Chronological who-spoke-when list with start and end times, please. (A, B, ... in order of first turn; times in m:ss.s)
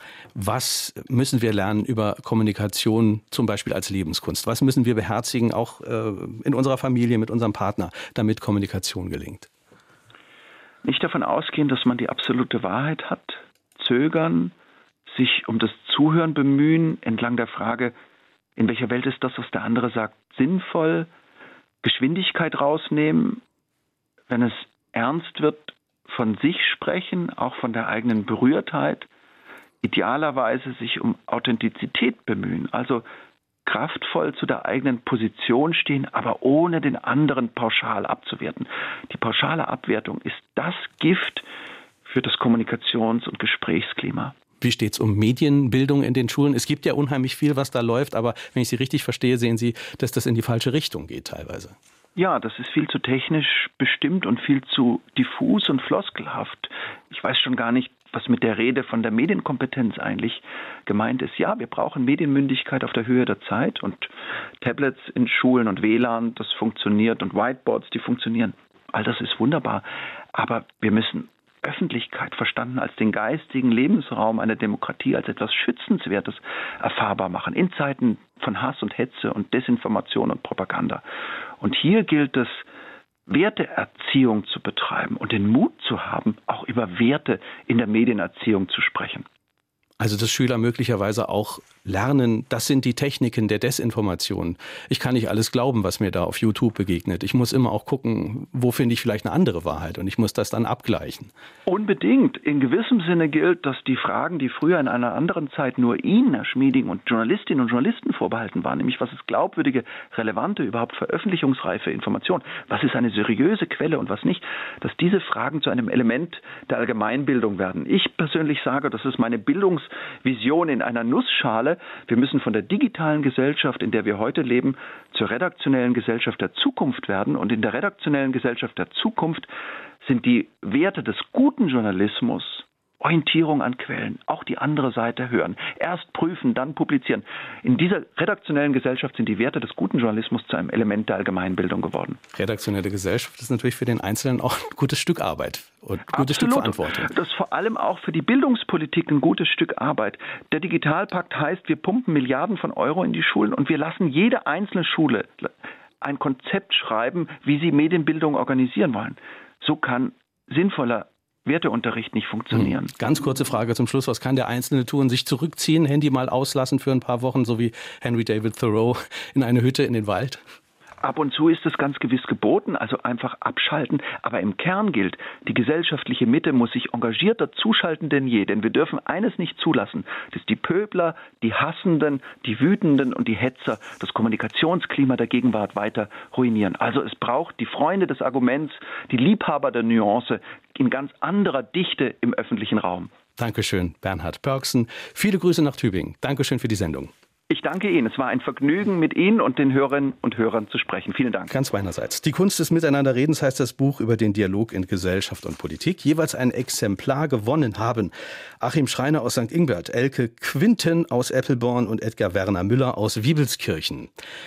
0:00.4-0:09.5 A
0:10.8-0:14.5 B
0:15.1-0:18.0 B
0:18.6-0:21.1 B
0:21.8-0:23.4 B
0:24.3-0:29.1 B
0:29.8-0:33.0 B
0:33.7-0:41.5 B
0:42.1-0:44.4 B
0:44.6-0:51.8 A
0:52.2-1:21.0 B
1:21.6-1:22.7 B
1:23.3-1:29.3 B
1:30.0-1:41.3 A
1:41.7-2:09.5 B
2:10.0-2:22.2 B
2:22.3-2:27.1 A
2:26.1-2:42.9 B
2:42.5-2:50.4 A
2:51.0-3:13.1 B
3:13.4-3:17.1 A
3:17.5-3:21.5 B
3:21.5-3:34.1 A